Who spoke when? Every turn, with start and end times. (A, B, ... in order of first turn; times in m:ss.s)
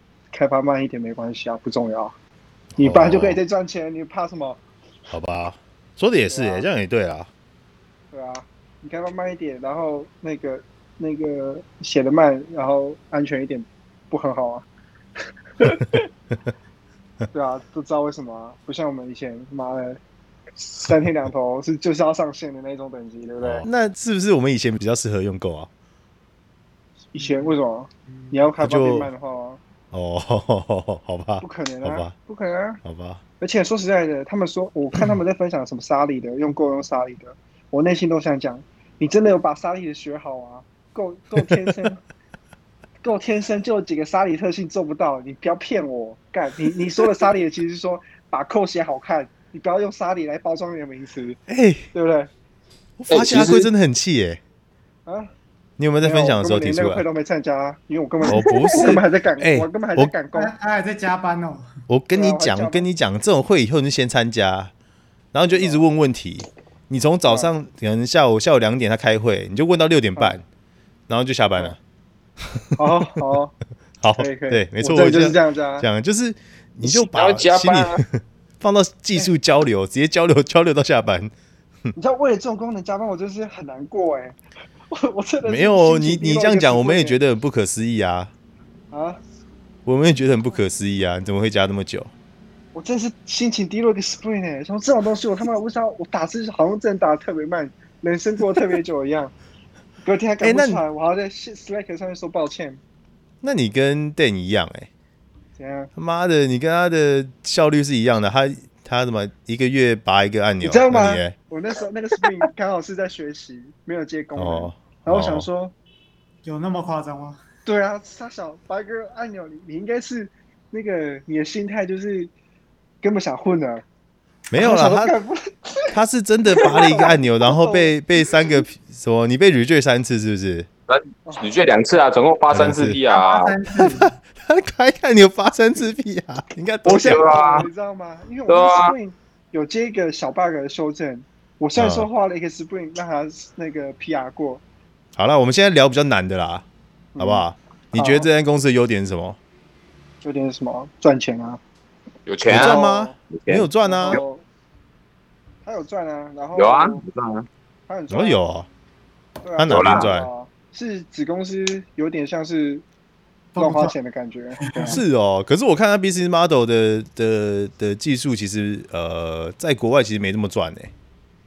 0:00.3-0:02.2 A
0:02.8-0:03.4 B
0:02.8-0:04.6 A
0:05.1-0:07.3 B
0:06.3-0:06.7 A
0:08.1-0:14.7 A
0:17.3-0:20.0 A
0:20.6-0:23.7 A
0:23.4-0:25.7 B
0:27.1-0:29.6 A
0:28.6-0:29.1 B
0:29.9-0:32.1 B
0:31.4-0:32.8 A
0:32.8-0:33.2 B
0:33.4-0:42.0 A
0:43.0-0:51.4 A
0:51.5-0:51.9 B
0:51.9-0:52.3 A
0:53.0-0:54.4 B
0:53.1-0:53.7 C
0:55.1-0:55.3 A
0:55.8-0:57.0 B
0:56.0-1:00.5 A
0:58.2-1:00.1 B
1:00.3-1:01.7 D
1:01.9-1:04.7 B
1:02.1-1:02.9 A
1:05.3-1:10.4 B
1:05.5-1:05.8 A
1:07.2-1:07.5 A
1:11.1-1:11.8 B
1:12.8-1:13.5 A
1:14.0-1:21.3 B
1:14.2-1:15.9 A
1:16.8-1:18.0 C
1:22.0-1:24.4 A
1:24.9-1:27.2 A
1:25.4-1:28.3 B
1:28.9-1:29.2 A
1:29.9-1:32.1 B
1:32.7-1:39.3 A
1:40.0-1:42.8 A
1:40.4-1:40.8 B
1:43.4-1:44.9 B
1:45.6-1:45.9 A
1:46.0-1:51.4 B
1:50.6-1:55.7 A
1:54.4-1:55.5 B
1:56.4-1:57.4 D
1:57.6-2:02.3 A
2:03.0-2:03.8 A
2:04.5-2:05.1 B
2:04.6-2:05.9 A
2:05.9-2:10.7 B
2:06.5-2:08.0 A
2:10.9-2:13.6 C
2:12.5-2:13.0 B
2:13.1-2:14.1 D
2:13.8-2:17.3 B
2:16.9-2:17.7 C
2:16.9-2:24.6 A
2:18.5-2:18.9 C
2:21.8-2:22.1 B
2:25.2-2:26.6 B
2:27.2-2:28.3 A
2:27.2-2:29.4 B
2:30.2-2:31.6 A
2:32.3-2:32.8 C
2:32.5-2:34.2 B
2:32.5-2:33.2 A
2:33.3-2:34.2 C
2:33.8-2:34.4 A
2:35.6-2:37.0 A
2:36.6-2:37.5 C
2:37.9-2:38.4 A
2:38.1-2:38.7 B
2:39.4-2:42.8 A
2:39.6-2:40.3 B
2:39.7-2:40.1 C
2:43.6-2:43.9 D
2:43.6-2:45.0 A
2:44.6-2:45.0 D
2:44.9-2:50.9 B